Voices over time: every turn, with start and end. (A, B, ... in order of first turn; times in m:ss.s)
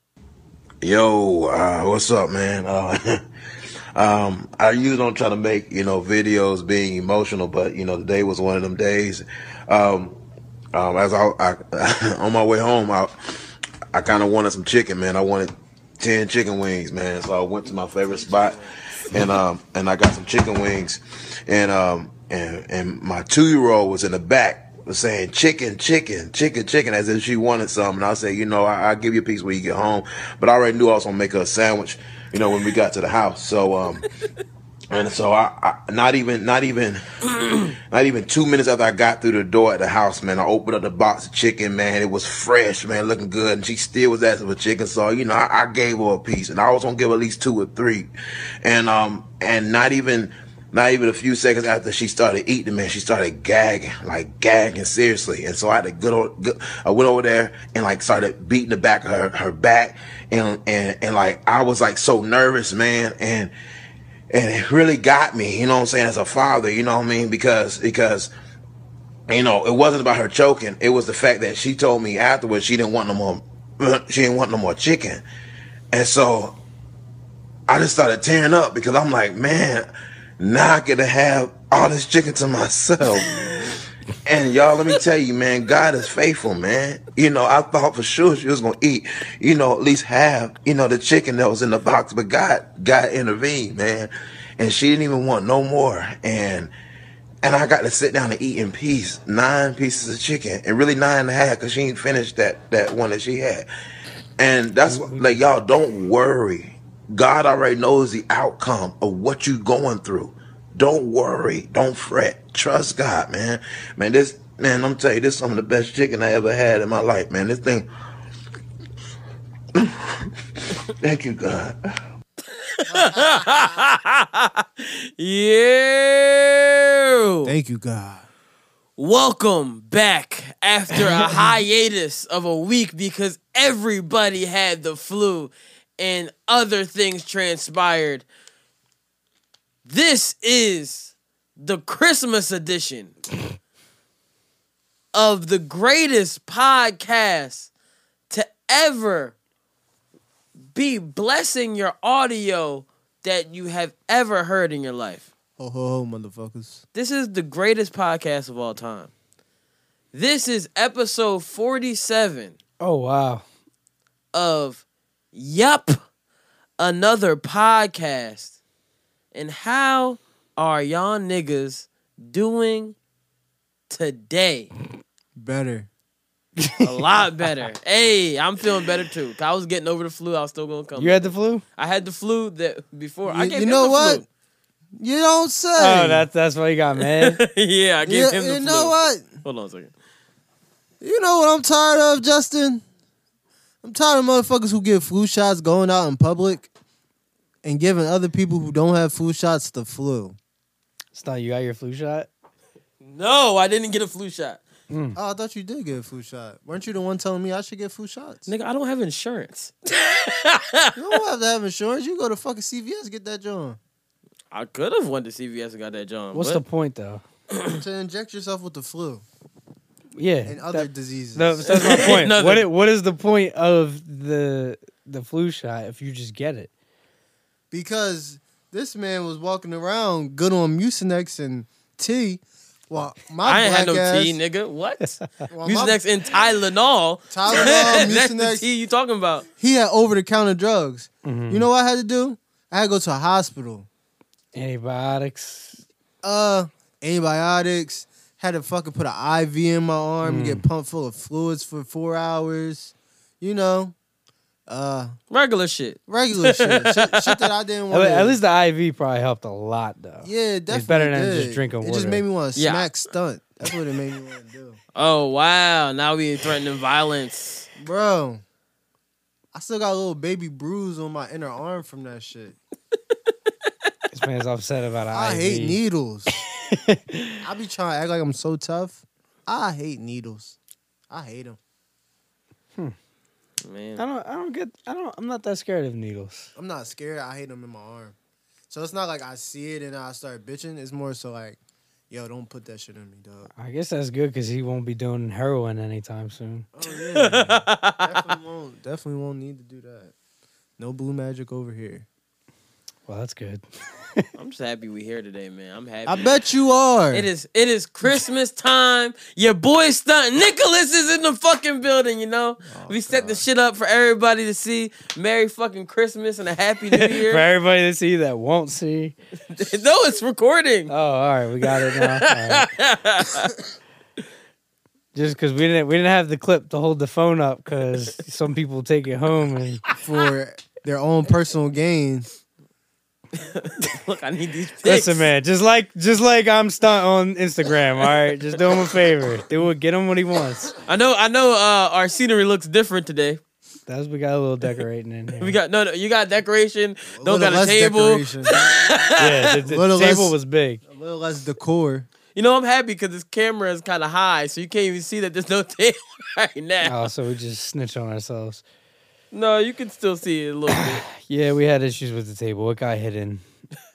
0:00.8-0:03.2 A
0:03.9-0:10.2 A
0:10.7-0:13.1 A
0:13.9-0:34.1 A
0:17.6-0:19.0 B
0:34.9-0:48.1 A
0:48.6-1:03.5 A
1:04.3-1:08.3 A
1:09.3-1:15.2 A
1:15.9-1:16.6 A
1:17.7-1:19.9 A
1:20.4-1:36.7 A
1:37.4-1:43.7 A
1:44.4-1:57.9 A
1:44.8-1:45.4 C
1:59.7-2:00.3 A
2:00.9-2:01.8 A
2:02.5-2:07.5 B
2:03.0-2:03.6 D
2:07.4-2:08.3 D
2:09.0-2:18.2 B
2:19.8-2:23.1 B
2:25.1-2:27.7 B
2:28.3-2:29.3 B
2:30.7-2:35.3 B
2:35.6-2:36.8 D
2:36.9-2:39.1 B
2:40.1-2:42.6 B
2:42.8-2:43.4 C
2:44.3-2:46.0 B
2:46.8-2:48.6 B
2:49.3-2:53.0 B
2:53.9-2:54.7 B
2:55.4-2:55.9 D
2:56.6-2:56.9 C
2:56.8-3:04.2 B
3:01.0-3:01.6 C
3:03.2-3:04.2 D
3:05.0-3:06.3 D
3:05.8-3:07.4 C
3:07.0-3:09.9 B
3:08.0-3:09.3 D
3:11.0-3:12.8 D
3:13.8-3:16.7 D
3:17.6-3:20.4 D
3:21.1-3:22.3 C
3:23.0-3:24.6 B
3:24.9-3:25.2 C
3:25.1-3:28.5 D
3:28.5-3:31.0 B
3:31.0-3:33.8 D
3:34.5-3:36.6 B
3:36.3-3:37.2 C
3:37.7-3:39.2 D
3:40.2-3:46.7 C
3:40.4-3:42.1 D
3:41.7-3:42.6 B
3:47.7-3:54.4 D
3:53.4-3:59.4 B
3:55.5-3:56.0 D
3:57.3-3:58.7 D
3:59.6-4:03.9 D
4:01.2-4:01.6 C
4:04.5-4:05.8 C
4:06.2-4:13.9 D
4:10.2-4:10.6 C
4:14.7-4:15.2 D
4:15.3-4:17.5 B
4:16.1-4:18.4 D
4:17.9-4:22.2 C
4:20.2-4:24.8 D
4:22.6-4:22.9 B
4:24.9-4:27.7 B
4:27.8-4:28.4 D
4:29.5-4:32.6 D
4:34.1-4:35.8 C
4:35.1-4:36.3 D
4:36.6-4:37.4 C
4:37.4-4:40.6 D
4:41.1-4:41.6 D
4:43.6-4:44.0 B
4:44.0-4:46.5 C
4:46.6-4:48.2 D
4:48.7-4:51.6 D
4:52.1-4:53.5 D
4:53.6-4:56.7 C
4:56.7-5:00.1 D
4:57.1-4:58.4 B
5:00.8-5:02.1 D
5:03.1-5:03.6 C
5:04.4-5:06.3 B
5:06.1-5:07.3 D
5:07.1-5:17.4 B
5:12.6-5:13.4 D
5:16.9-5:19.1 C
5:19.5-5:20.9 B
5:20.9-5:22.7 C
5:21.6-5:23.5 B
5:25.1-5:29.8 C
5:30.0-5:32.3 D
5:33.3-5:35.3 B
5:34.8-5:40.7 C
5:40.9-5:43.4 B
5:43.9-5:45.6 C
5:45.4-5:49.3 B
5:47.1-5:48.6 D
5:49.2-5:50.8 C
5:49.6-5:50.3 D
5:50.8-5:52.1 D
5:52.3-5:57.0 B
5:56.8-5:58.6 C
5:59.3-6:01.0 B
6:00.8-6:03.4 C